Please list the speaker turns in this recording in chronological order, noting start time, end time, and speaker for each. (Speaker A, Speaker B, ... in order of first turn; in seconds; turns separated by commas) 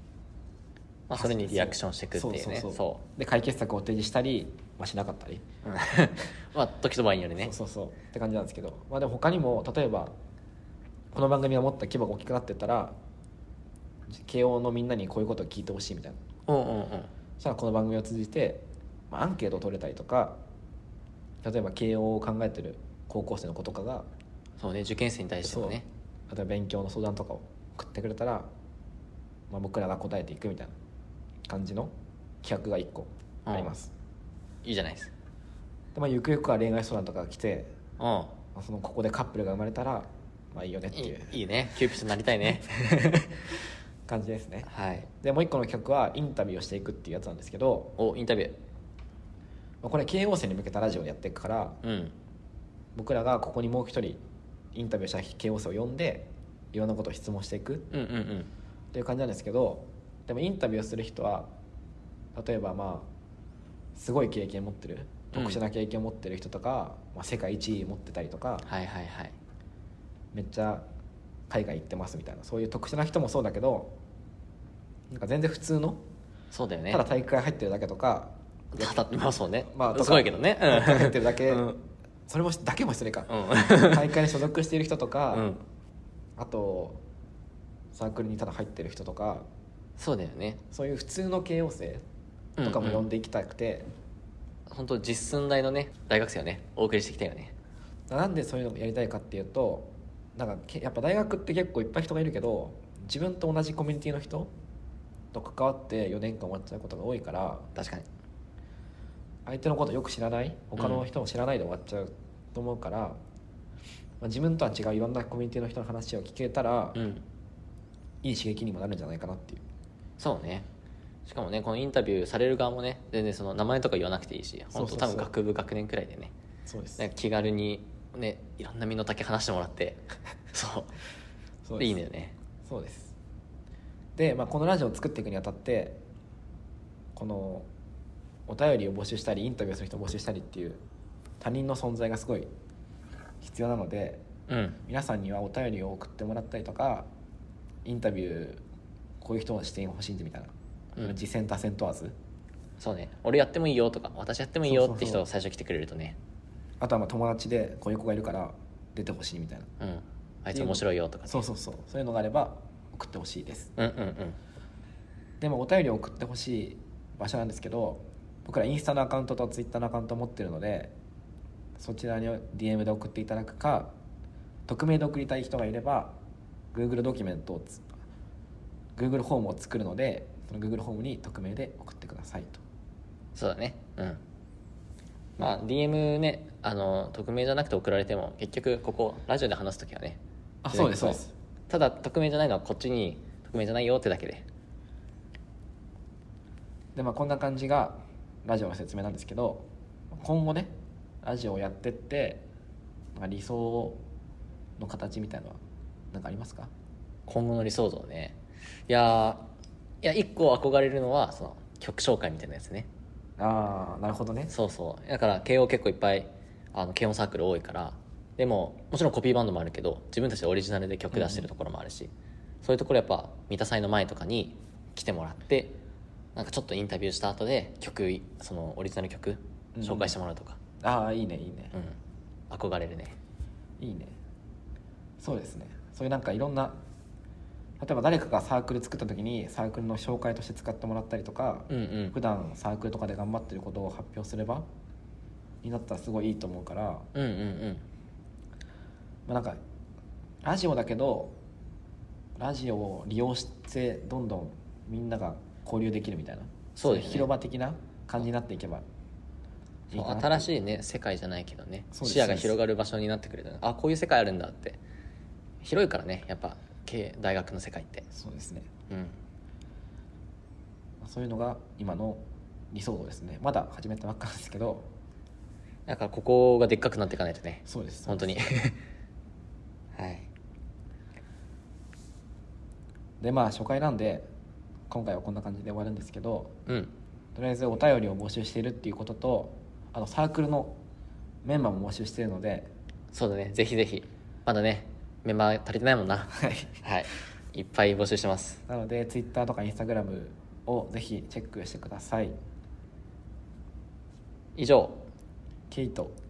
Speaker A: 1.1-3.0, Speaker B: 1.1-5.5, Speaker A: 5.6-7.5, Speaker B: 7.4-10.1, Speaker B: 11.1-12.9, Speaker B: 14.1-16.2, Speaker A: 16.5-17.1, Speaker B: 17.4-20.4, Speaker B: 21.4-24.1, Speaker A: 24.6-25.9, Speaker B: 25.4-28.5, Speaker B: 29.5-30.7, Speaker B: 31.5-31.9, Speaker B: 32.4-33.9, Speaker A: 33.5-33.7, Speaker A: 34.6-35.1, Speaker B: 36.0-37.7, Speaker A: 38.0-38.4, Speaker B: 38.5-41.4, Speaker A: 40.9-43.1, Speaker B: 44.1-44.7, Speaker A: 44.6-45.1, Speaker B: 45.2-48.0, Speaker A: 48.0-48.6, Speaker B: 49.8-51.8, Speaker A: 51.8-52.1, Speaker B: 53.0-54.2, Speaker B: 54.7-57.9, Speaker A: 57.9-58.5, Speaker B: 58.9-61.5, Speaker B: 62.4-63.1, Speaker B: 64.0-68.7, Speaker A: 65.3-65.6, Speaker A: 68.6-69.4, Speaker B: 70.3-70.8, Speaker B: 71.5-73.9, Speaker B: 75.1-76.0, Speaker A: 76.5-77.0, Speaker B: 76.9-79.0, Speaker A: 78.7-81.8, Speaker B: 79.7-81.7, Speaker B: 82.3-85.5, Speaker A: 83.3-84.2, Speaker A: 85.3-85.6, Speaker B: 86.4-87.0, Speaker B: 87.9-89.5, Speaker A: 90.0-90.6, Speaker B: 90.7-92.0, Speaker A: 92.6-93.1, Speaker B: 92.6-93.8, Speaker A: 94.7-97.5, Speaker B: 98.1-104.5, Speaker B: 105.3-107.7, Speaker A: 107.8-108.1, Speaker B: 109.5-113.2, Speaker A: 110.8-111.1, Speaker B: 114.2-117.0, Speaker A: 117.0-117.2, Speaker B: 118.2-119.6, Speaker A: 120.2-120.7, Speaker A: 121.3-126.3, Speaker B: 124.7-125.3, Speaker B: 126.7-127.1, Speaker A: 127.0-130.9, Speaker B: 131.7-132.0, Speaker A: 131.8-132.3, Speaker B: 132.7-133.2, Speaker B: 134.2-136.0, Speaker B: 137.2-137.7, Speaker B: 138.5-140.8, Speaker B: 141.4-142.5, Speaker B: 143.4-144.2, Speaker A: 144.5-144.8, Speaker B: 144.8-147.1, Speaker B: 147.8-148.6, Speaker B: 149.2-152.2, Speaker A: 152.8-156.2, Speaker B: 154.7-155.2, Speaker B: 156.8-159.7, Speaker A: 159.8-161.4, Speaker B: 160.5-163.7, Speaker A: 163.8-164.4, Speaker B: 165.4-170.9, Speaker B: 171.8-173.9, Speaker B: 174.7-176.1, Speaker B: 176.7-177.8, Speaker B: 179.0-182.6, Speaker A: 183.3-184.2, Speaker A: 185.4-190.2, Speaker B: 190.6-191.3, Speaker A: 190.7-194.4, Speaker B: 196.9-200.7, Speaker B: 201.2-202.5, Speaker B: 203.2-204.0, Speaker B: 204.8-205.6, Speaker B: 206.1-206.7, Speaker A: 207.3-209.5, Speaker A: 210.0-212.9, Speaker B: 213.4-214.5, Speaker A: 214.5-222.1, Speaker B: 221.1-221.5, Speaker A: 222.6-225.8, Speaker A: 226.3-230.6, Speaker B: 229.8-230.2, Speaker B: 230.8-231.7, Speaker A: 232.5-233.2, Speaker B: 233.8-234.2, Speaker B: 235.2-236.8, Speaker B: 237.8-244.7, Speaker A: 241.7-242.2, Speaker B: 245.6-247.1, Speaker A: 247.1-247.8, Speaker B: 249.3-249.6, Speaker B: 250.4-251.3, Speaker B: 252.4-258.8, Speaker A: 256.8-257.3, Speaker B: 259.9-260.5, Speaker A: 259.9-264.8, Speaker B: 261.9-262.6, Speaker A: 265.6-268.1, Speaker B: 268.1-268.7, Speaker A: 268.9-269.2, Speaker B: 271.0-274.9, Speaker A: 275.9-278.8, Speaker B: 277.7-278.5, Speaker A: 279.9-280.3, Speaker B: 283.2-284.3, Speaker B: 284.9-286.6, Speaker A: 286.7-286.9, Speaker B: 287.4-290.8, Speaker B: 291.4-292.7, Speaker A: 293.1-296.3, Speaker B: 296.3-296.8, Speaker A: 296.8-298.6, Speaker B: 298.7-302.4, Speaker A: 304.6-305.1, Speaker B: 305.7-306.1